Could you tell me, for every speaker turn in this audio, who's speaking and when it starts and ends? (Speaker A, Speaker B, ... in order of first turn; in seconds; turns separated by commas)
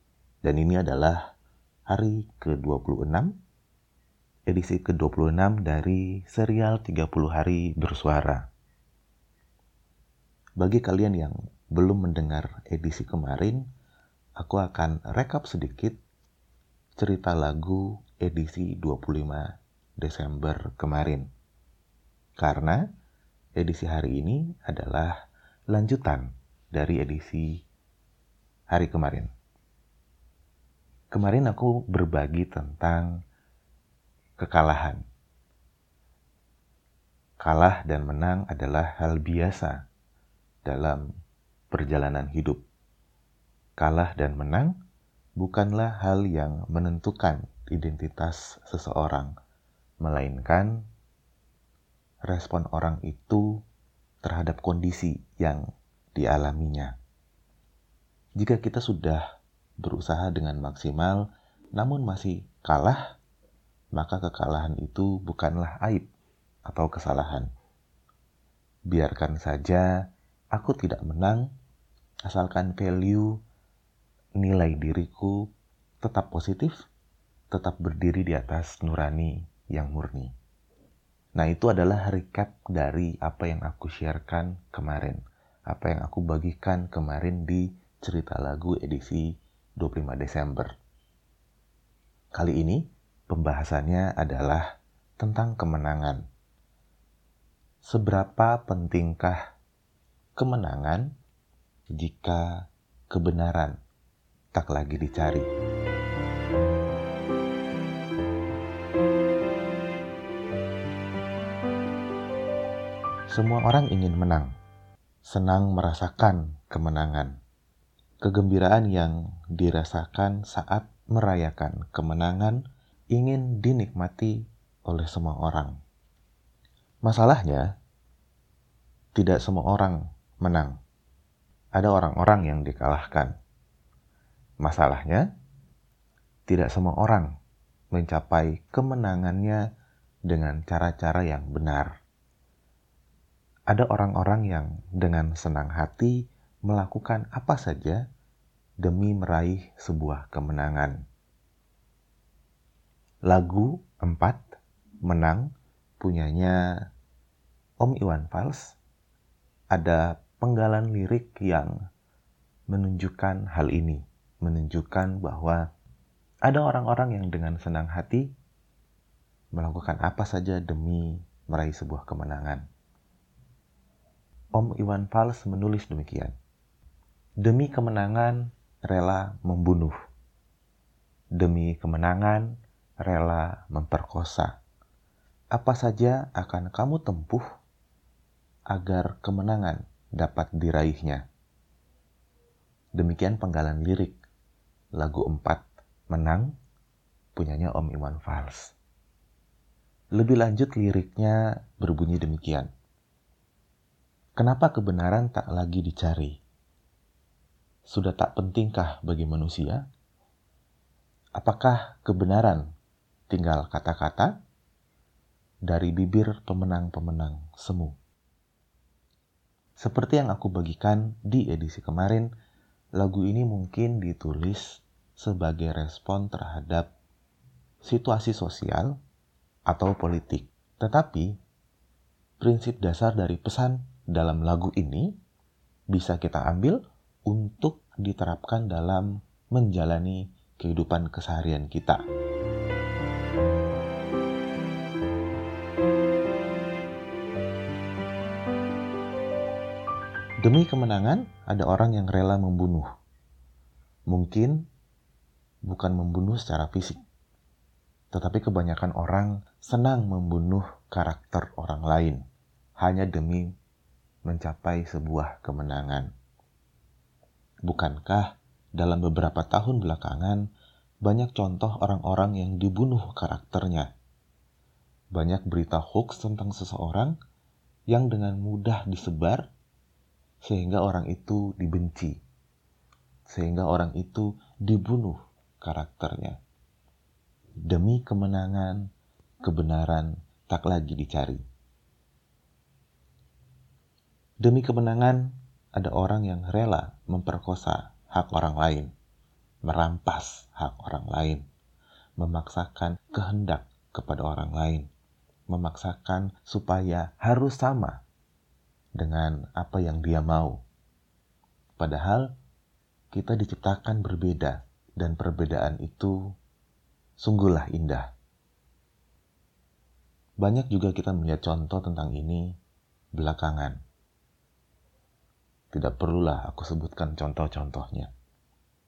Speaker A: 0.4-1.2, Speaker A: 1.9-3.4, Speaker A: 4.5-8.4, Speaker A: 10.6-13.6, Speaker A: 14.4-16.0, Speaker A: 17.0-21.3, Speaker A: 22.4-22.8, Speaker A: 23.6-25.2, Speaker A: 25.7-27.6, Speaker A: 28.7-29.3, Speaker A: 31.1-33.1, Speaker A: 34.4-35.0, Speaker A: 37.4-39.8, Speaker A: 40.6-41.1, Speaker A: 41.7-42.6, Speaker A: 43.8-44.7, Speaker A: 45.4-49.3, Speaker A: 50.0-50.8, Speaker A: 52.3-53.5, Speaker A: 54.2-56.9, Speaker A: 58.4-59.2, Speaker A: 59.8-63.1, Speaker A: 63.9-66.1, Speaker A: 66.7-67.5, Speaker A: 68.9-70.0, Speaker A: 70.5-71.5, Speaker A: 72.3-73.4, Speaker A: 74.4-75.5, Speaker A: 76.0-76.8, Speaker A: 77.5-80.3, Speaker A: 81.3-90.7, Speaker A: 92.3-94.7, Speaker A: 95.2-96.2, Speaker A: 97.8-99.4, Speaker A: 100.4-101.1, Speaker A: 101.9-103.8, Speaker A: 104.5-105.5, Speaker A: 113.3-114.5, Speaker A: 115.2-117.4, Speaker A: 118.2-125.8, Speaker A: 127.0-127.7, Speaker A: 129.1-130.8, Speaker A: 131.8-133.3, Speaker A: 134.6-135.3, Speaker A: 136.5-137.3, Speaker A: 137.9-139.6, Speaker A: 140.3-141.9, Speaker A: 143.7-148.0, Speaker A: 148.8-151.0, Speaker A: 153.3-154.4, Speaker A: 155.0-156.9, Speaker A: 157.8-158.8, Speaker A: 159.7-161.8, Speaker A: 162.7-165.6, Speaker A: 166.4-168.3, Speaker A: 169.5-172.6, Speaker A: 174.6-176.3, Speaker A: 177.4-179.9, Speaker A: 181.4-182.5, Speaker A: 183.0-184.6, Speaker A: 185.5-187.4, Speaker A: 188.7-191.2, Speaker A: 192.9-194.2, Speaker A: 194.9-196.5, Speaker A: 197.3-198.8, Speaker A: 200.2-202.7, Speaker A: 204.3-206.4, Speaker A: 207.8-209.8, Speaker A: 211.4-212.7, Speaker A: 213.3-214.3, Speaker A: 215.7-217.9, Speaker A: 219.8-222.3, Speaker A: 223.0-226.9, Speaker A: 227.8-229.0, Speaker A: 229.7-231.3, Speaker A: 232.4-235.1, Speaker A: 235.9-242.0, Speaker A: 250.4-252.9, Speaker A: 254.1-254.6, Speaker A: 255.7-257.0, Speaker A: 258.1-262.2, Speaker A: 262.8-263.5, Speaker A: 264.2-266.1, Speaker A: 267.6-270.4, Speaker A: 271.0-273.9, Speaker A: 275.1-277.1, Speaker A: 277.9-279.5, Speaker A: 280.4-282.2, Speaker A: 283.3-286.4, Speaker A: 287.7-288.9, Speaker A: 289.4-291.4, Speaker A: 294.4-298.9, Speaker A: 299.6-301.4, Speaker A: 302.2-304.9, Speaker A: 305.5-308.0, Speaker A: 309.0-310.6, Speaker A: 311.8-312.3, Speaker A: 313.1-316.2, Speaker A: 317.2-318.1, Speaker A: 320.4-322.5, Speaker A: 323.1-323.8, Speaker A: 325.7-328.1